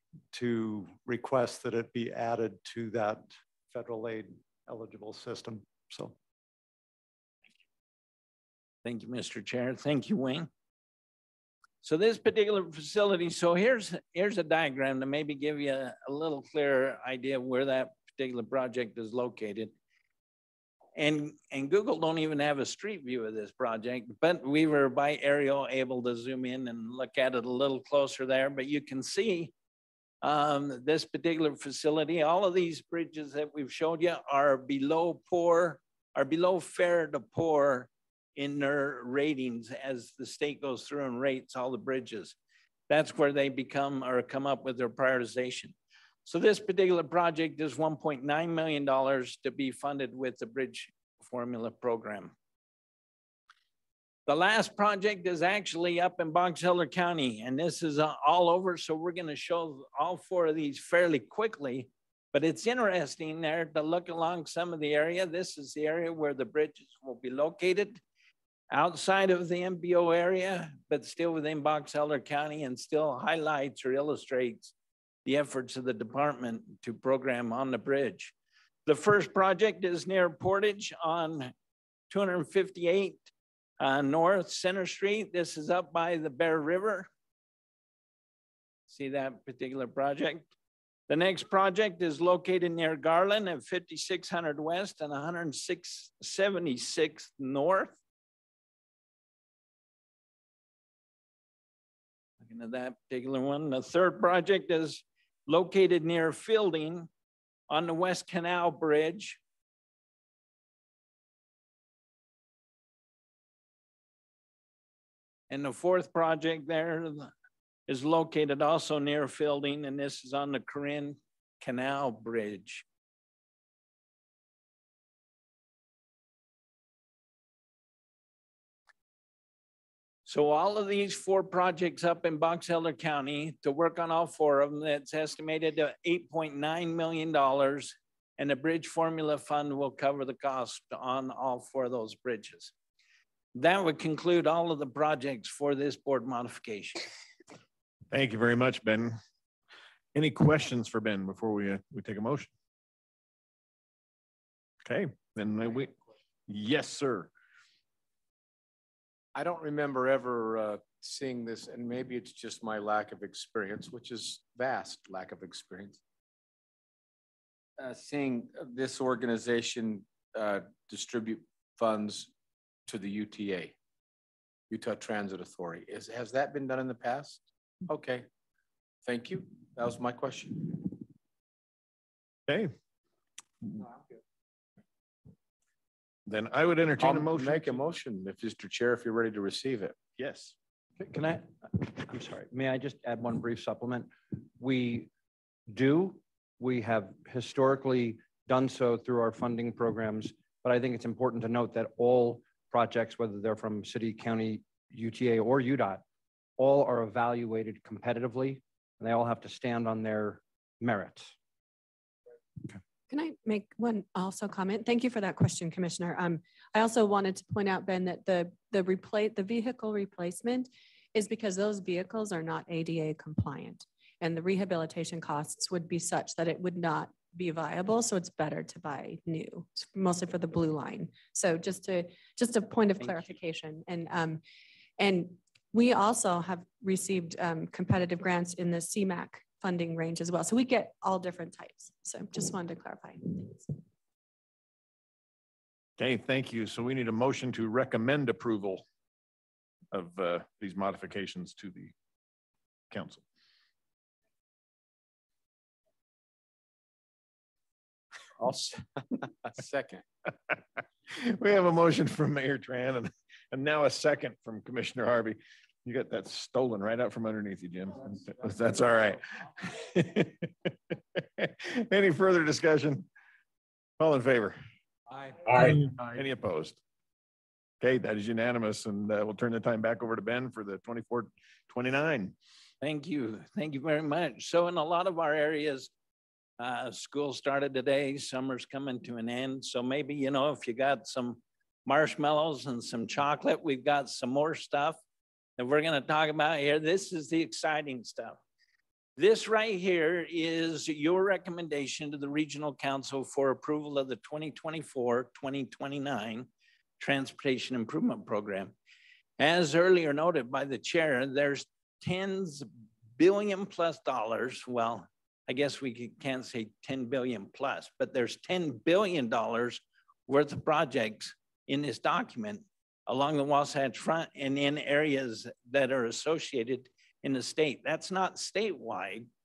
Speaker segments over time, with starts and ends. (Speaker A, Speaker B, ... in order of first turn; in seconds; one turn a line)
Speaker A: 0.3-6.1
Speaker B: 8.8-10.5
Speaker B: 11.8-19.7
Speaker B: 20.9-29.5
Speaker B: 30.2-42.4
Speaker B: 42.9-45.7
Speaker B: 46.2-52.3
Speaker B: 54.3-68.0
Speaker B: 68.7-74.7
Speaker B: 75.2-78.3
Speaker B: 78.8-81.5
Speaker B: 82.1-83.3
Speaker B: 83.8-87.1
Speaker B: 88.9-90.5
Speaker B: 91.1-98.0
Speaker B: 102.4-107.1
Speaker B: 107.7-109.4
Speaker B: 115.5-117.3
Speaker B: 117.9-122.8
Speaker B: 130.2-142.7
Speaker B: 143.5-147.1
Speaker C: 148.1-149.2
Speaker C: 150.1-152.5
Speaker C: 154.8-155.9
Speaker C: 156.5-157.3
Speaker D: 159.3-166.0
Speaker D: 167.8-172.3
Speaker D: 172.8-173.7
Speaker D: 174.7-178.2
Speaker D: 179.0-181.0
Speaker C: 182.5-182.7
Speaker C: 186.2-187.8
Speaker D: 187.0-190.4
Speaker C: 190.2-190.5
Speaker E: 191.0-195.1
Speaker E: 195.7-206.0
Speaker E: 206.6-211.3
Speaker F: 213.1-234.4
Speaker F: 235.0-243.7
Speaker C: 246.0-248.8
Speaker C: 249.9-251.9
Speaker C: 252.9-253.2
Speaker D: 258.4-258.8
Speaker D: 259.5-260.0
Speaker C: 261.1-270.5
Speaker C: 271.4-273.1
Speaker C: 274.0-274.6
Speaker C: 275.4-276.8
Speaker C: 277.8-282.3
Speaker B: 282.8-285.9
Speaker B: 286.6-295.0
Speaker B: 295.6-298.4
Speaker B: 299.2-306.5
Speaker B: 307.0-308.7
Speaker B: 309.4-329.3